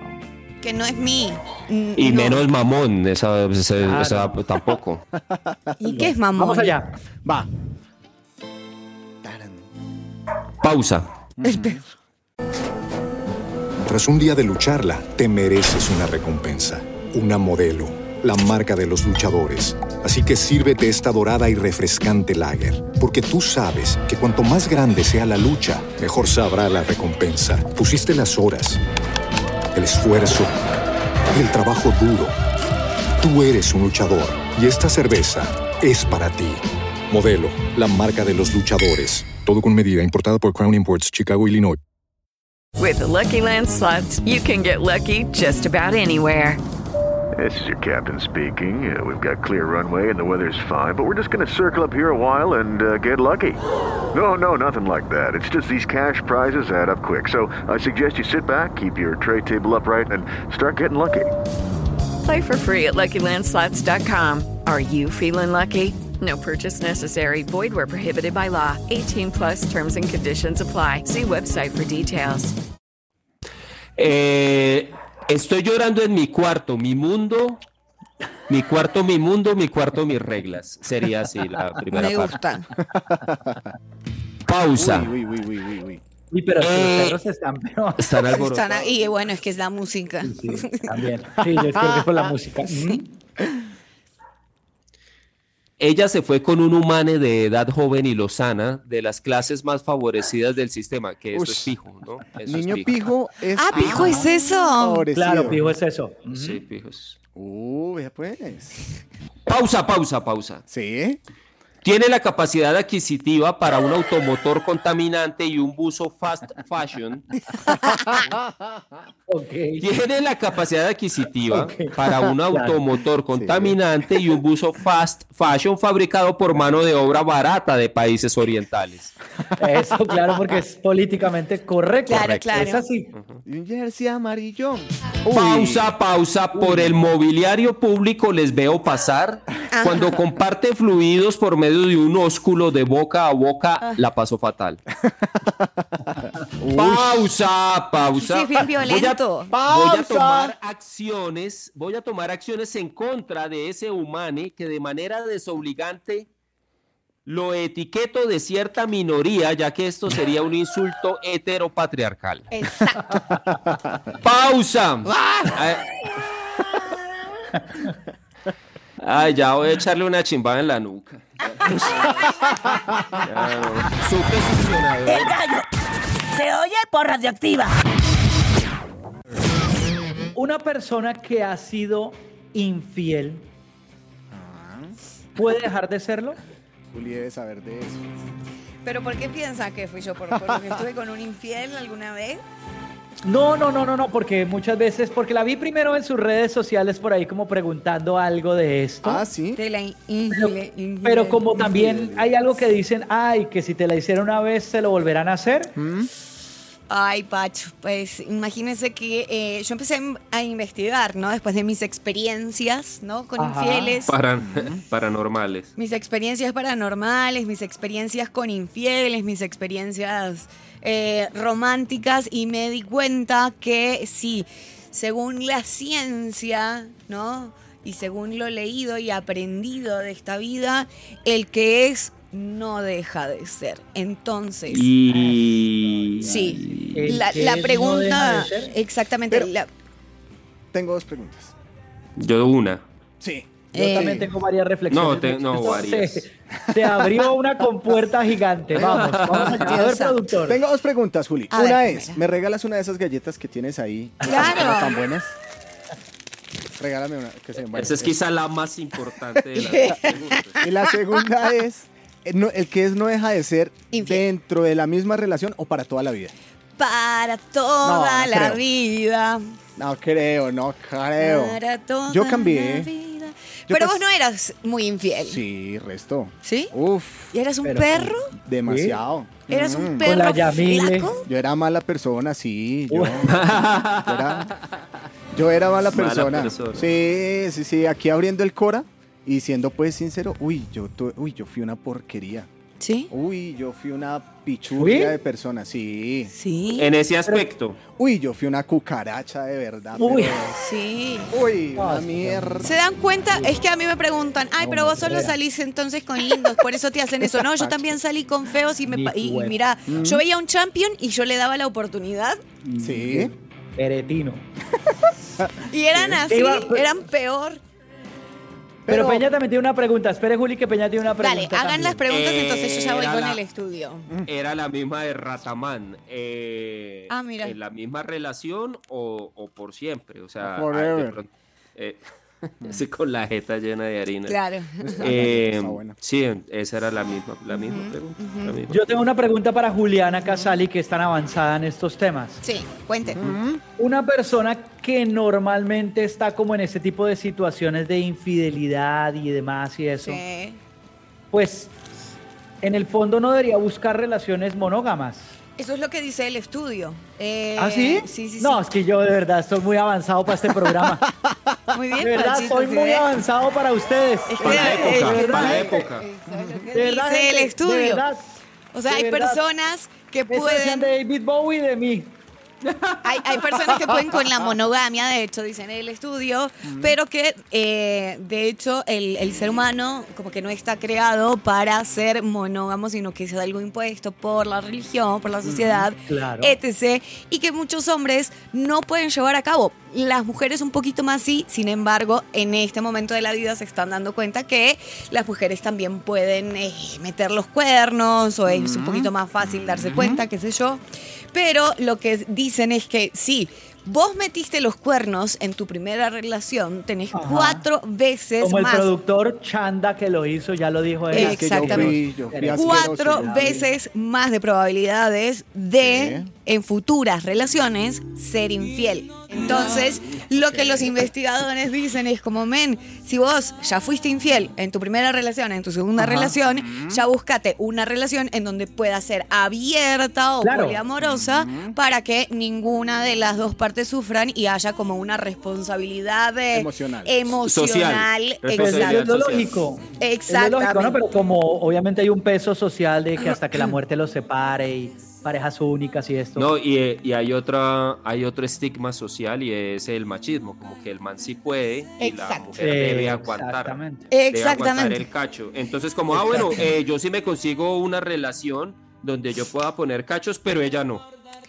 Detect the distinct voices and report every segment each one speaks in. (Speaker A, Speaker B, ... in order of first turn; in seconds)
Speaker A: 0.6-2.5, 5.8-6.7, 11.4-11.8, 81.9-82.7, 88.3-90.8, 103.6-105.1, 132.1-132.8, 139.7-140.2, 148.2-149.5, 162.5-163.0, 188.8-192.4, 199.6-201.6, 206.9-214.2, 215.8-234.9, 236.2-239.7, 243.7-244.3, 249.5-250.2, 251.5-252.2, 254.2-255.0, 259.5-260.8, 263.9-264.2, 266.8-269.4, 271.2-275.4, 276.4-276.7, 277.3-278.3, 279.5-281.3, 292.8-293.1, 296.3-296.9, 300.6-301.3, 302.6-312.4, 315.7-317.6, 321.2-324.1, 327.1-327.6, 334.3-335.0, 337.5-338.6, 342.4-343.4, 350.0-350.6, 355.6-358.6, 361.7-363.1, 364.3-368.0, 368.7-370.9, 373.0-408.9, 411.1-412.0, 412.5-439.1, 440.0-441.0, 443.2-443.7, 452.0-452.5, 454.1-455.1
Speaker B: 2.0-5.0, 10.6-11.1, 74.0-77.6, 78.5-82.4, 84.5-85.1, 86.6-87.2, 88.0-88.9, 95.8-103.1, 106.3-107.2, 109.5-110.6, 111.8-117.3, 119.8-129.2, 133.2-133.4, 135.3-144.8, 146.7-156.3, 157.3-162.5, 164.2-165.9, 169.0-171.9, 173.2-175.4, 214.1-215.7, 234.7-237.2, 242.2-242.8, 244.9-246.2, 248.8-249.6, 257.7-260.6, 283.3-284.5, 285.9-286.9, 296.8-297.8, 322.1-323.4, 324.3-334.4, 335.0-338.8, 364.4-366.1, 437.4-439.5, 446.4-453.8, 454.3-461.1
Speaker C: 3.8-4.4, 5.8-6.9, 86.3-88.2, 90.2-93.1, 103.8-104.2, 105.2-106.6, 119.3-119.8, 121.5-122.0, 122.5-122.8, 129.6-133.1, 136.6-137.0, 180.3-183.5, 185.4-186.4, 193.2-199.2, 200.3-205.8, 213.4-214.0, 236.9-238.7, 243.8-250.6, 277.6-278.1, 278.6-279.0, 280.0-281.1, 282.9-283.2, 294.8-295.1, 300.0-300.4, 301.8-302.4, 304.6-305.4, 308.9-309.5, 312.6-314.4, 316.3-316.9, 318.9-322.0, 338.7-342.4, 343.8-350.2, 351.3-351.7, 352.6-355.4, 357.6-361.1, 362.0-365.8, 366.7-368.3, 368.9-369.4, 370.3-372.1, 386.1-386.6, 407.1-407.6, 408.4-413.7, 426.0-426.3, 430.4-430.8, 438.6-446.5, 452.6-454.1
Speaker D: 9.2-9.7, 11.4-11.8, 83.1-83.6, 84.7-86.0, 101.3-101.7, 102.5-105.6, 107.3-108.8, 110.7-111.2, 123.3-123.8, 133.4-135.9, 146.6-147.3, 149.5-150.6, 184.3-184.9, 186.9-188.0, 190.3-190.7, 199.0-199.6, 205.8-206.1, 214.4-214.8, 240.7-241.5, 243.2-244.3, 248.8-249.4, 250.5-255.3, 256.8-258.2, 260.6-266.3, 267.8-268.6, 269.8-272.9, 273.7-274.1, 275.3-277.3, 278.4-280.1, 281.3-284.5, 285.3-292.5, 293.1-296.3, 298.0-300.6, 301.3-302.7, 307.5-307.9, 309.9-310.2, 312.8-313.3, 315.4-316.2, 318.9-319.3, 330.4-331.2, 334.8-335.9, 343.1-343.6, 366.3-366.7, 376.6-377.0, 385.4-385.9, 398.5-399.1, 399.8-400.2, 411.1-413.6, 415.8-416.3, 420.5-421.0, 426.4-427.0, 431.0-431.8, 436.5-437.1
Speaker E: 13.8-28.8, 29.8-30.6, 31.3-32.4, 33.2-41.8
Speaker F: 42.8-46.6, 62.2-72.6
Speaker G: 47.4-53.6, 54.1-61.3
Speaker H: 175.1-175.7, 176.3-177.8